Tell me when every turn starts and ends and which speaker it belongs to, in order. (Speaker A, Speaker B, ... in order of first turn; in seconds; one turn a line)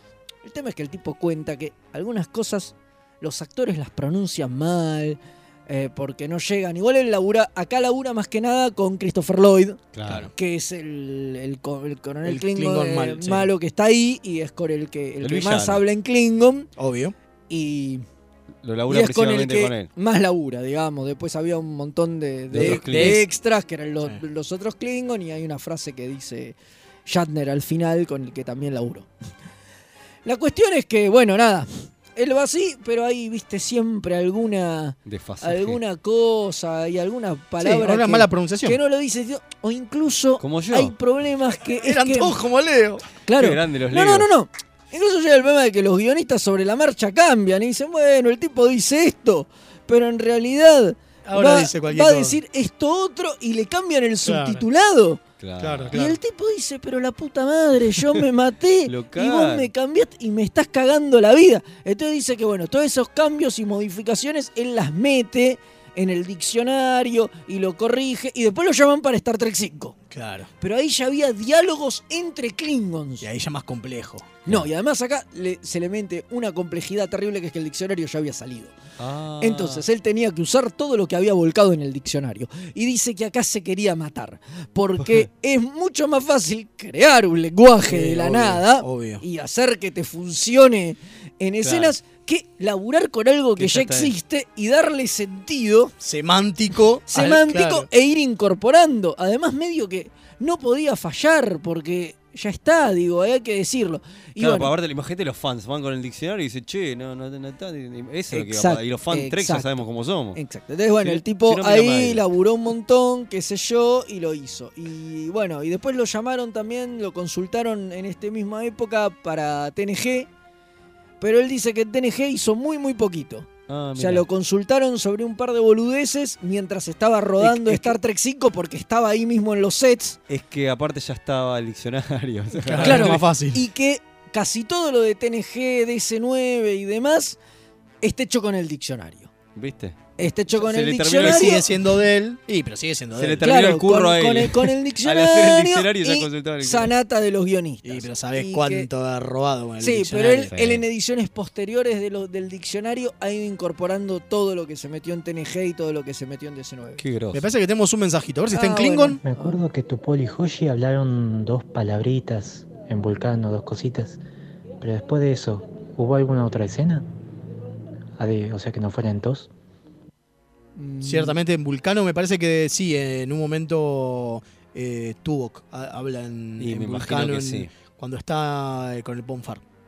Speaker A: 0.5-9.8
Speaker B: 9.9-10.3
Speaker A: 10.4-16.7
Speaker C: 12.2-13.5
Speaker B: 15.2-15.8
Speaker C: 16.8-17.1
Speaker A: 17.5-18.0
Speaker B: 18.6-19.9
Speaker A: 18.9-26.6
Speaker B: 22.5-23.2
Speaker C: 22.6-23.3
Speaker A: 27.1-29.1
Speaker A: 30.2-42.4
Speaker B: 35.1-35.8
Speaker C: 37.6-38.8
Speaker B: 40.4-40.9
Speaker C: 41.8-43.0
Speaker A: 43.2-55.2
Speaker B: 43.4-44.3
Speaker C: 51.3-52.4
Speaker C: 54.3-54.6
Speaker B: 55.4-56.0
Speaker C: 55.6-56.2
Speaker A: 55.9-70.0
Speaker B: 58.9-59.7
Speaker C: 70.1-70.5
Speaker A: 70.6-73.3
Speaker C: 73.2-74.3
Speaker A: 74.5-78.8
Speaker B: 79.0-79.9
Speaker A: 79.4-95.9
Speaker C: 87.9-89.2
Speaker B: 91.6-91.9
Speaker C: 93.6-94.1
Speaker C: 96.0-97.9
Speaker A: 97.1-104.7
Speaker B: 104.4-110.4
Speaker A: 108.3-109.8
Speaker A: 110.3-120.3
Speaker B: 111.0-112.2
Speaker A: 121.2-130.2
Speaker B: 123.7-124.3
Speaker C: 127.4-128.0
Speaker B: 130.3-133.2
Speaker C: 132.6-133.6
Speaker A: 132.8-137.4
Speaker A: 138.0-139.3
Speaker B: 139.6-141.7
Speaker A: 140.2-141.6
Speaker C: 141.2-143.5
Speaker B: 143.2-146.9
Speaker A: 143.4-148.9
Speaker C: 147.8-150.5
Speaker A: 149.8-157.0
Speaker B: 150.4-150.8
Speaker B: 157.0-157.5
Speaker C: 157.3-159.2
Speaker A: 158.5-159.6
Speaker D: 159.2-164.2
Speaker D: 164.8-167.1
Speaker D: 168.2-169.5
Speaker A: 170.8-171.4
Speaker C: 171.0-179.6
Speaker B: 176.6-177.7